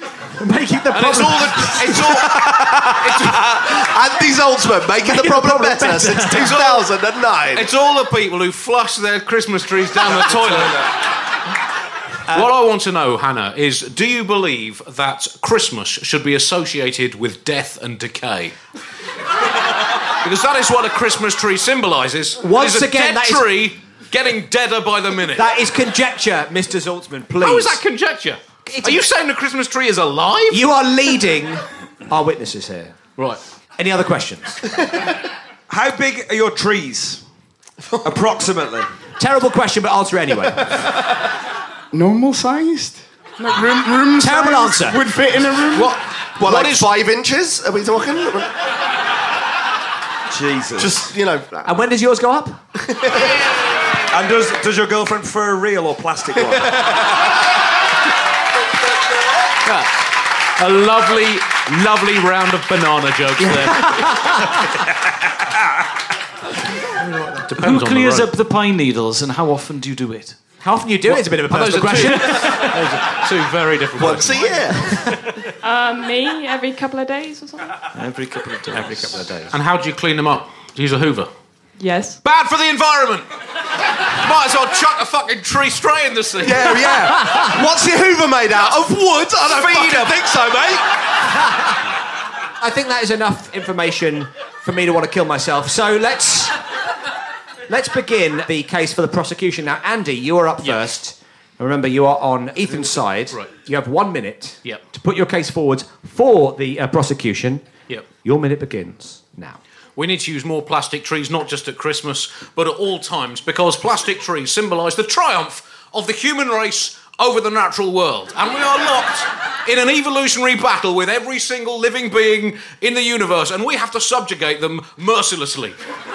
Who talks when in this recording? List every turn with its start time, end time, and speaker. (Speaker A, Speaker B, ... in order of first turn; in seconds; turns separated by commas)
Speaker A: 0.4-2.0, Speaker B: 0.9-3.6, Speaker C: 2.2-7.7, Speaker A: 5.0-6.5, Speaker B: 6.3-6.8, Speaker B: 7.5-10.9, Speaker B: 12.3-18.6, Speaker B: 20.2-25.5, Speaker A: 22.4-23.5, Speaker A: 25.4-27.8, Speaker B: 27.4-30.6, Speaker A: 28.7-29.1, Speaker A: 30.5-33.0, Speaker A: 33.8-34.6, Speaker D: 35.7-37.2, Speaker D: 38.0-38.9, Speaker A: 39.2-40.8, Speaker E: 41.9-45.9, Speaker A: 44.2-45.0, Speaker B: 45.7-46.9, Speaker C: 46.4-48.5, Speaker D: 50.3-51.1, Speaker C: 50.8-51.7, Speaker A: 51.6-52.6, Speaker C: 52.9-53.3, Speaker D: 54.1-56.9, Speaker B: 59.6-60.0, Speaker B: 60.6-64.4, Speaker A: 63.7-64.5, Speaker B: 67.0-68.3, Speaker F: 67.6-70.4, Speaker A: 70.6-73.0, Speaker B: 71.1-74.6, Speaker C: 74.0-75.0, Speaker G: 75.6-77.8, Speaker F: 78.0-79.3, Speaker A: 78.8-79.5, Speaker B: 79.5-81.3, Speaker G: 81.8-82.2, Speaker B: 82.2-83.3, Speaker B: 84.1-87.0, Speaker C: 86.4-90.8, Speaker B: 89.5-90.2, Speaker A: 92.6-96.5, Speaker A: 97.7-107.7, Speaker A: 108.2-109.6, Speaker B: 110.0-125.8